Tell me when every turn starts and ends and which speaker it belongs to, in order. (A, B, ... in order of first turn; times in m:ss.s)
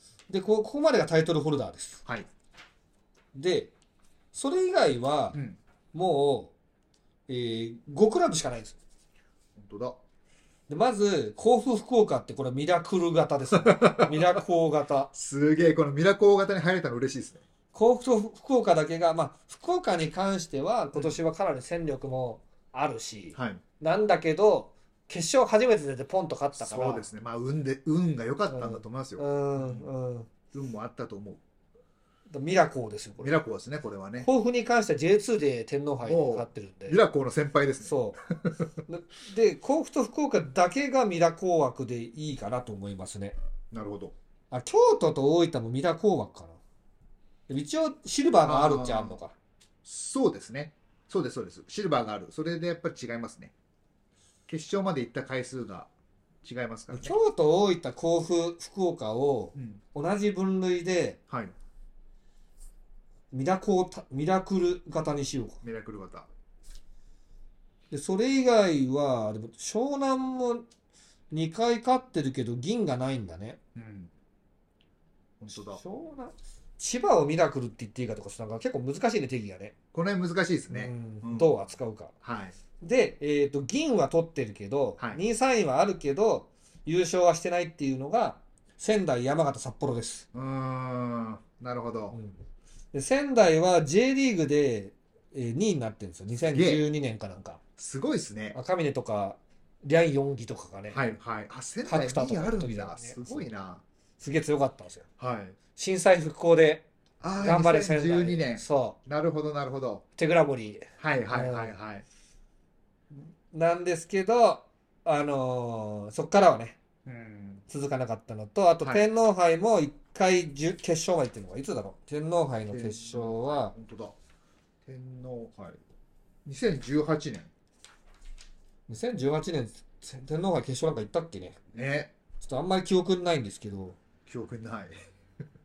0:00.3-0:02.0 A
0:03.3-0:03.7 A
0:04.3-0:05.4 A
0:05.9-0:06.5 A
0:07.3-0:08.8 A
0:09.6-0:10.0 B
0:10.7-0:15.1 A
0:13.5-0:14.4 B
0:15.1-0:17.4 B
0:17.7-0:27.1 A
0:20.9-0:21.2 B
0:23.3-0:23.6 B
0:26.6-0:29.9 B
0:28.5-0:30.3 A
0:30.5-0:31.4 B
0:32.3-0:33.4 A
0:33.2-0:34.3 B
0:34.2-0:37.0 A
0:36.0-0:38.6 B
0:37.8-0:38.2 A
0:38.9-0:43.4 A
0:43.7-0:44.2 B
0:44.5-0:46.6 A
0:47.5-0:49.3 A
0:48.4-0:49.2 B
0:49.8-0:53.5 B
0:54.5-0:55.9 B
0:56.4-0:57.2 B
0:56.9-1:01.2 A
0:59.6-0:59.8 B
1:03.3-1:05.6 A
1:05.6-1:06.3 B
1:07.9-1:10.7 A
1:11.3-1:13.6 A
1:13.8-1:14.1 B
1:15.4-1:15.8 B
1:15.6-1:19.7 A
1:19.9-1:21.5 B
1:20.7-1:22.1 A
1:22.2-1:22.6 B
1:22.8-1:30.3 A
1:30.3-1:32.2 B
1:32.1-1:32.4 A
1:32.9-1:37.6 A
1:36.5-1:36.8 B
1:37.8-1:38.6 B
1:38.5-1:41.0 A
1:40.9-1:43.8 B
1:41.8-1:43.5 A
1:44.2-1:45.1 A
1:45.2-1:45.6 B
1:45.8-1:46.8 A
1:47.2-1:50.0 B
1:47.4-1:49.0 A
1:50.2-1:51.7 A
1:51.0-1:52.0 B
1:53.1-1:56.8 A
1:57.1-1:57.6 B
1:57.7-2:03.7 A
2:02.7-2:04.2 B
2:04.8-2:05.8 B
2:06.4-2:07.5 B
2:08.9-2:11.7 A
2:11.7-2:12.1 B
2:12.4-2:14.0 A
2:14.3-2:15.0 B